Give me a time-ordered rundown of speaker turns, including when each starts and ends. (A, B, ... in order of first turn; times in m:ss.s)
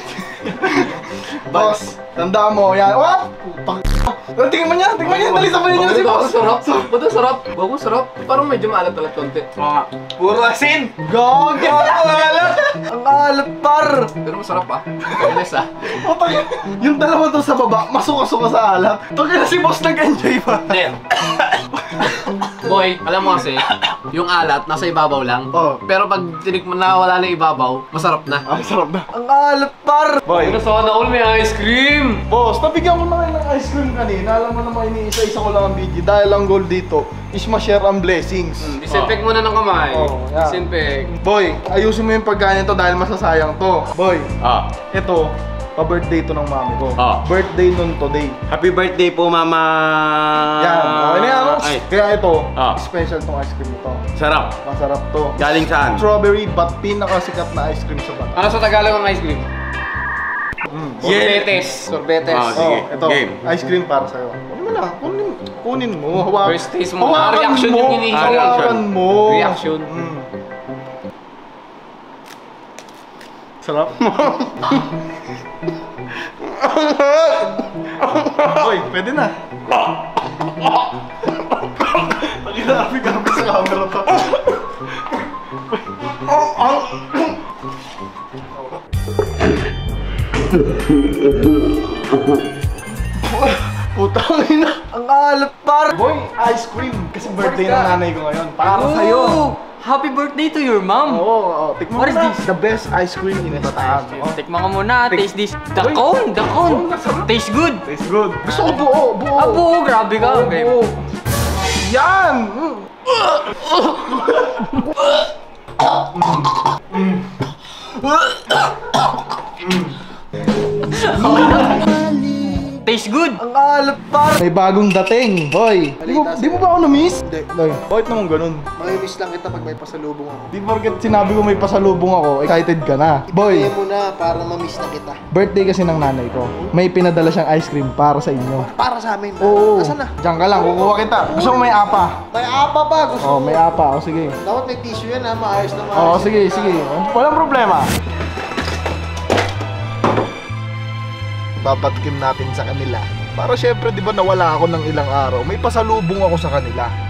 0:00.2-0:06.9 A
0:00.5-0:01.0 B
0:01.5-0:01.8 B
0:05.0-0:09.5 B
0:10.4-0:10.9 C
0:11.0-0:14.1 A
0:14.2-0:15.7 B
0:15.8-0:22.5 A
0:20.7-0:21.0 B
0:22.1-0:28.4 B
0:25.5-0:25.8 A
0:28.5-0:30.6 A
0:30.3-0:32.2 B
0:32.3-0:38.8 A
0:38.6-0:41.1 B
0:38.9-0:39.1 C
0:39.9-0:44.3 A
0:44.4-0:44.7 C
0:44.9-0:48.4 A
0:47.0-0:47.2 C
0:48.5-0:51.8 C
0:50.6-0:54.0 A
0:54.2-0:54.6 C
0:54.6-0:55.4 A
0:55.4-0:56.0 C
0:55.9-0:58.6 A
0:58.4-0:59.5 B
1:00.7-1:01.4 A
1:01.0-1:02.7 B
1:02.3-1:03.4 C
1:02.6-1:10.3 A
1:06.4-1:09.9 B
1:08.2-1:08.8 C
1:13.6-1:14.1 A
1:18.3-1:19.4 A
1:21.5-1:24.6 A
1:26.0-1:27.3 A
1:33.2-1:39.4 A
1:37.3-1:38.0 D
1:38.7-1:41.2 D
1:41.0-1:44.4 A
1:42.0-1:42.4 D
1:44.2-1:47.8 D
1:45.1-1:47.3 A
1:47.8-1:49.6 A
1:49.4-1:50.7 D
1:50.2-1:51.0 A
1:51.8-1:54.7 A
1:56.2-1:57.2 A
1:59.6-2:00.0 A
2:01.1-2:02.5 A
2:01.2-2:01.7 D
2:02.8-2:03.4 D
2:03.4-2:08.7 A
2:06.0-2:07.7 E
2:08.8-2:10.5 E
2:10.5-2:13.7 A
2:13.3-2:15.2 E
2:15.3-2:18.7 A
2:18.6-2:23.6 E
2:19.4-2:22.2 A
2:23.2-2:24.4 A
2:24.4-2:27.0 E
2:25.9-2:27.9 A
2:31.6-2:36.9 A